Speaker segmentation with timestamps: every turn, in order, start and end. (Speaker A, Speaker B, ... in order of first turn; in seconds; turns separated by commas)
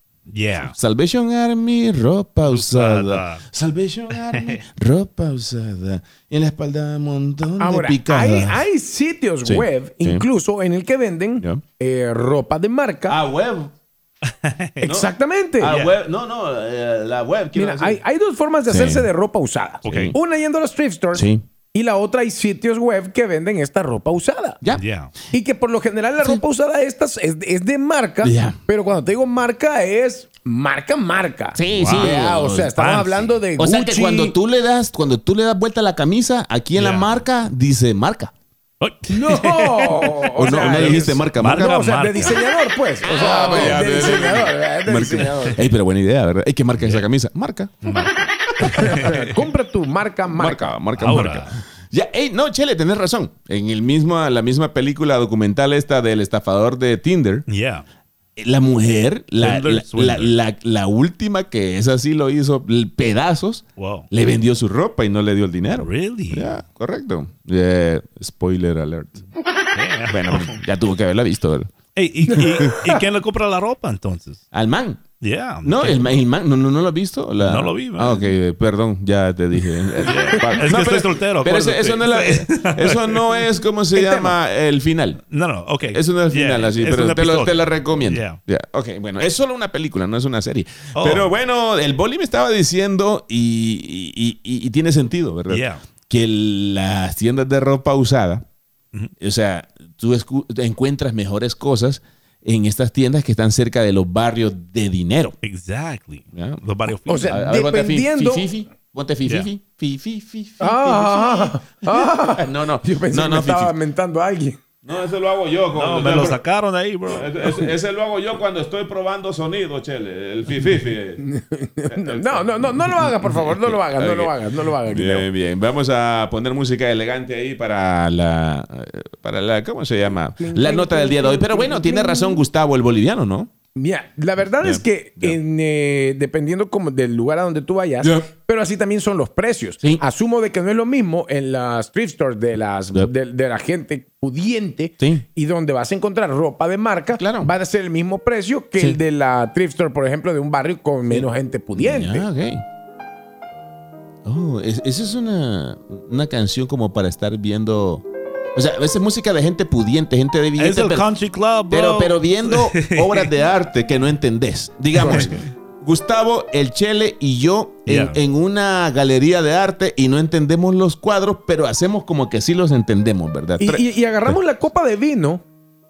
Speaker A: 0.3-0.7, Speaker B: 0.6-8.6, Speaker A: 2.4-3.4, Speaker A: 4.1-4.6, Speaker C: 7.6-13.2, Speaker B: 9.4-10.2, Speaker B: 13.1-13.7, Speaker A: 14.3-14.8, Speaker C: 14.8-15.7, Speaker B: 14.8-18.0, Speaker A: 15.7-15.9, Speaker C: 17.5-24.6, Speaker B: 18.7-19.1, Speaker A: 19.8-20.1, Speaker B: 19.9-20.1, Speaker B: 21.1-21.4, Speaker A: 24.7-25.1, Speaker C: 25.3-34.3, Speaker B: 28.2-28.6, Speaker B: 31.5-32.7, Speaker A: 31.7-33.3, Speaker B: 33.6-38.3, Speaker A: 36.7-37.1, Speaker A: 38.8-42.4, Speaker C: 39.1-45.7, Speaker B: 40.3-41.9, Speaker B: 43.0-47.7, Speaker A: 43.3-43.8, Speaker A: 46.8-47.1, Speaker A: 47.8-49.3, Speaker B: 48.6-49.2, Speaker C: 48.7-50.7, Speaker B: 50.3-57.4, Speaker A: 51.0-51.5, Speaker A: 57.5-57.8, Speaker B: 58.4-69.2, Speaker A: 59.4-60.3, Speaker A: 63.8-64.1, Speaker A: 65.7-66.6, Speaker A: 69.7-70.6, Speaker B: 70.1-71.7, Speaker A: 71.9-74.4, Speaker B: 74.5-75.0, Speaker A: 75.2-76.2, Speaker B: 75.6-85.2, Speaker A: 77.4-78.3, Speaker A: 80.0-83.4, Speaker C: 83.9-84.4, Speaker A: 85.3-88.4, Speaker B: 85.9-98.4, Speaker A: 91.0-91.3, Speaker A: 95.5-95.8, Speaker B: 99.2-105.3, Speaker A: 105.4-107.4, Speaker B: 106.3-106.6, Speaker C: 107.0-108.5, Speaker B: 107.3-113.7, Speaker C: 110.6-114.6, Speaker B: 114.8-116.4, Speaker A: 115.7-117.4, Speaker B: 117.0-121.2, Speaker C: 121.2-125.3, Speaker B: 121.9-133.5, Speaker C: 130.4-132.4, Speaker C: 133.8-152.3, Speaker B: 134.6-135.4, Speaker B: 138.0-138.3, Speaker B: 145.0-145.2, Speaker B: 147.1-147.5, Speaker B: 151.1-152.6, Speaker B: 154.2-161.0, Speaker A: 160.6-163.3, Speaker B: 161.7-173.8, Speaker A: 164.9-165.5, Speaker C: 165.0-165.3, Speaker A: 167.8-168.2, Speaker C: 173.6-175.4